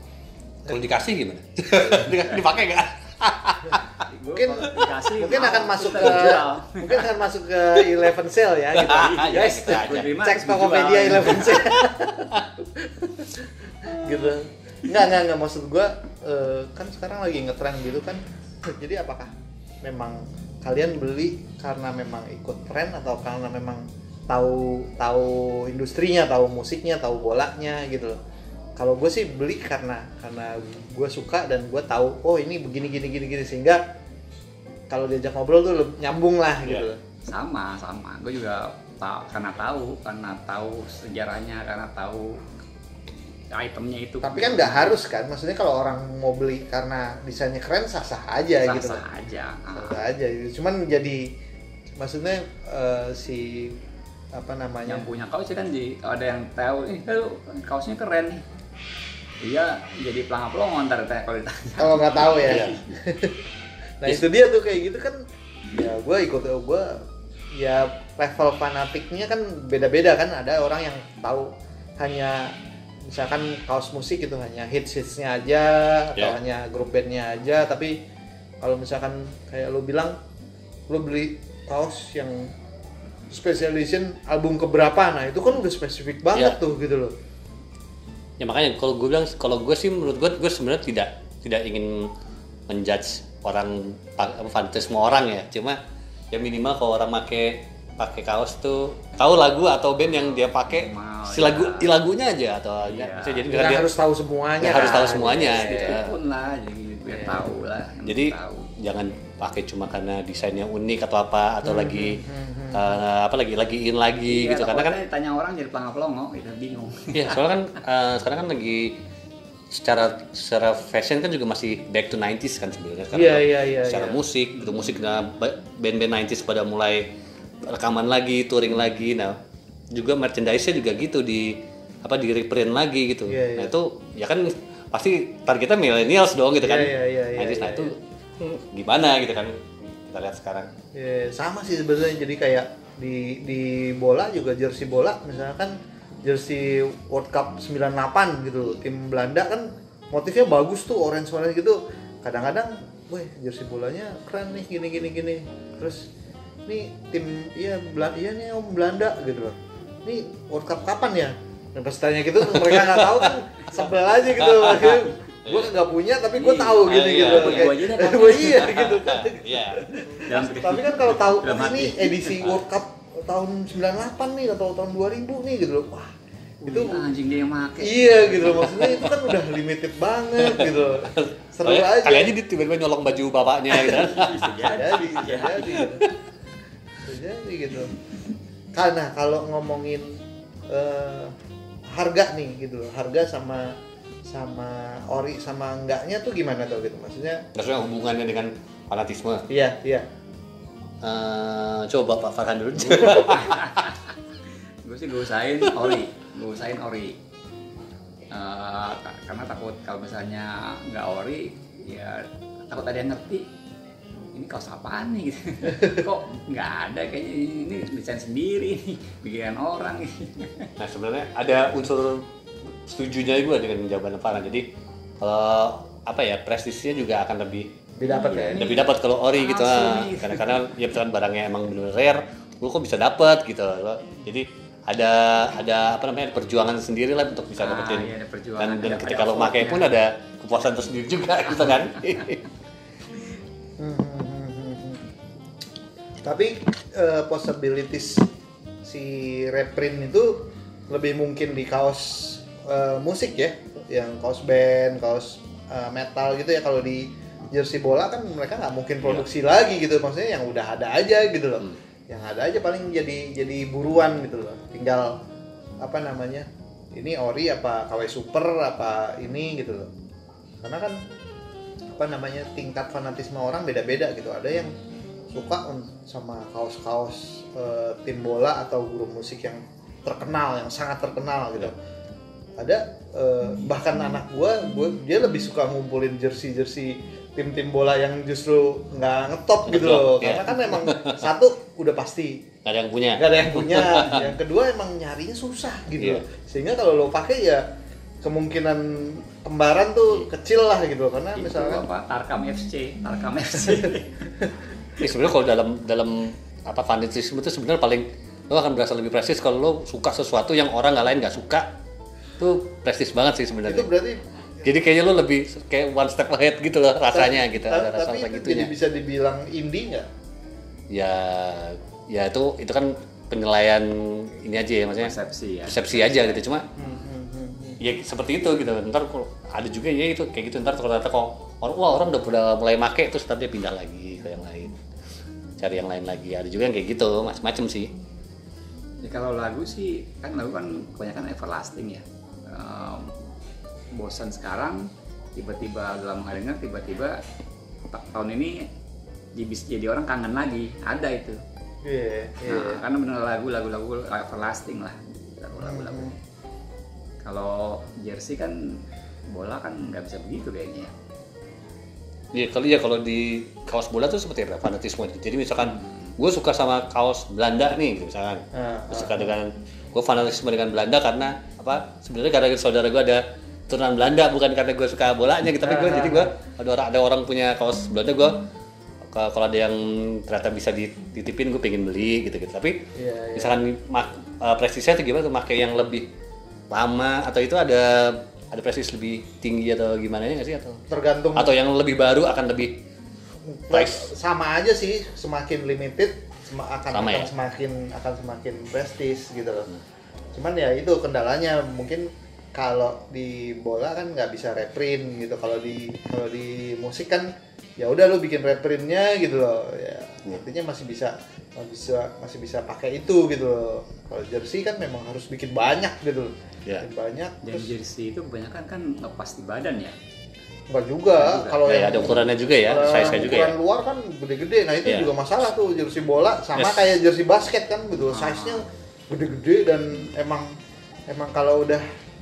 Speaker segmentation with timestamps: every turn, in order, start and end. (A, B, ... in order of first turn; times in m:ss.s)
0:00.7-0:03.8 A
0:04.0-0:07.1 B
0:04.3-0:28.2 C
0:08.8-0:10.1 A
0:08.8-0:11.6 B
0:28.8-0:33.8 C
0:34.9-0:37.0 C
0:37.3-0:42.4 B
0:43.5-0:44.9 B
0:44.2-0:49.0 C
0:48.6-0:50.0 B
0:49.7-0:51.3 C
0:52.0-0:53.8 C
0:54.3-0:55.1 C
0:54.9-0:58.4 B
0:59.4-1:02.8 B
1:01.8-1:03.4 C
1:02.4-1:02.8 A
1:04.0-1:12.6 C
1:13.1-1:18.0 C
1:18.6-1:20.2 C
1:20.9-1:22.5 C
1:23.3-1:27.1 C
1:28.4-1:32.1 A
1:32.7-1:35.8 A
1:36.3-1:44.0 A
1:40.2-1:41.9 B
1:42.8-1:43.5 B
1:43.5-1:46.0 C
1:44.6-1:46.2 A
1:44.7-1:48.7 B
1:47.1-1:47.4 C
1:48.1-1:55.0 A
1:51.6-1:53.0 C
1:54.3-1:57.5 B
1:57.1-1:59.0 A
1:59.7-2:07.1 A
2:03.1-2:04.2 C
2:04.6-2:04.9 B
2:07.7-2:09.4 A
2:09.9-2:20.7 A
2:13.3-2:13.7 C
2:16.6-2:17.9 C
2:21.0-2:36.1 C
2:36.7-2:56.1 C
2:42.5-2:43.4 A
2:44.4-2:45.7 A
2:46.4-2:48.9 B
2:46.8-2:47.8 A
2:48.5-2:49.9 A
2:50.2-2:52.5 B
2:56.6-2:58.9 B
2:56.6-2:57.1 C
2:57.8-3:02.4 C
3:00.4-3:04.6 A
3:03.9-3:05.9 B
3:04.6-3:06.1 C
3:05.7-3:06.1 A
3:07.0-3:07.9 C
3:08.8-3:10.2 C
3:10.7-3:11.3 C
3:11.9-3:17.4 C
3:17.6-3:19.5 A
3:19.5-3:20.1 C
3:21.0-3:23.8 A
3:23.1-3:24.1 B
3:24.8-3:27.2 B
3:28.3-3:33.5 B
3:34.3-3:40.7 B
3:40.8-3:44.7 A
3:45.2-3:47.8 A
3:48.0-3:48.8 C
3:48.0-3:48.8 B
3:48.3-4:02.4 A
3:49.3-3:50.7 B
3:57.6-3:59.9 B
4:03.8-4:05.0 C
4:06.2-4:08.3 C
4:08.8-4:25.2 C
4:25.8-4:29.9 C
4:30.6-4:31.0 C
4:31.9-4:34.7 C
4:35.3-4:41.8 C
4:42.6-4:52.4 C
4:49.7-4:51.3 A
4:52.6-4:54.3 A
4:53.2-4:57.7 C
4:56.0-4:56.2 A
4:58.2-5:01.9 C
5:01.4-5:04.3 B
5:05.0-5:11.7 A
5:12.4-5:13.9 A
5:13.6-5:14.2 C
5:14.6-5:18.7 A
5:17.1-5:20.1 C
5:20.9-5:25.1 A
5:25.0-5:26.4 B
5:25.7-5:26.7 A
5:26.8-5:27.8 C
5:27.8-5:34.8 A
5:35.6-5:37.9 A
5:39.0-5:43.1 B
5:43.9-5:47.2 B
5:47.9-5:48.7 B
5:49.4-5:51.4 B
5:51.8-5:52.8 C
5:52.4-5:56.2 B
5:55.6-5:56.1 C
5:57.2-6:00.9 B
6:02.3-6:18.4 A
6:05.6-6:06.1 B
6:08.5-6:09.3 C
6:15.6-6:16.3 C
6:19.1-6:22.8 A
6:23.0-6:23.6 C
6:23.4-6:26.1 A
6:26.7-6:30.8 A
6:30.9-6:31.5 C
6:31.4-6:32.8 A
6:33.5-6:39.7 C
6:33.7-6:34.1 A
6:36.9-6:37.3 A
6:40.4-6:57.7 C
6:57.4-7:00.0 B
7:00.7-7:10.6 C
7:01.2-7:01.6 B
7:01.6-7:03.6 A
7:04.8-7:05.1 A
7:06.6-7:06.9 A
7:08.1-7:08.6 B
7:11.1-7:11.8 C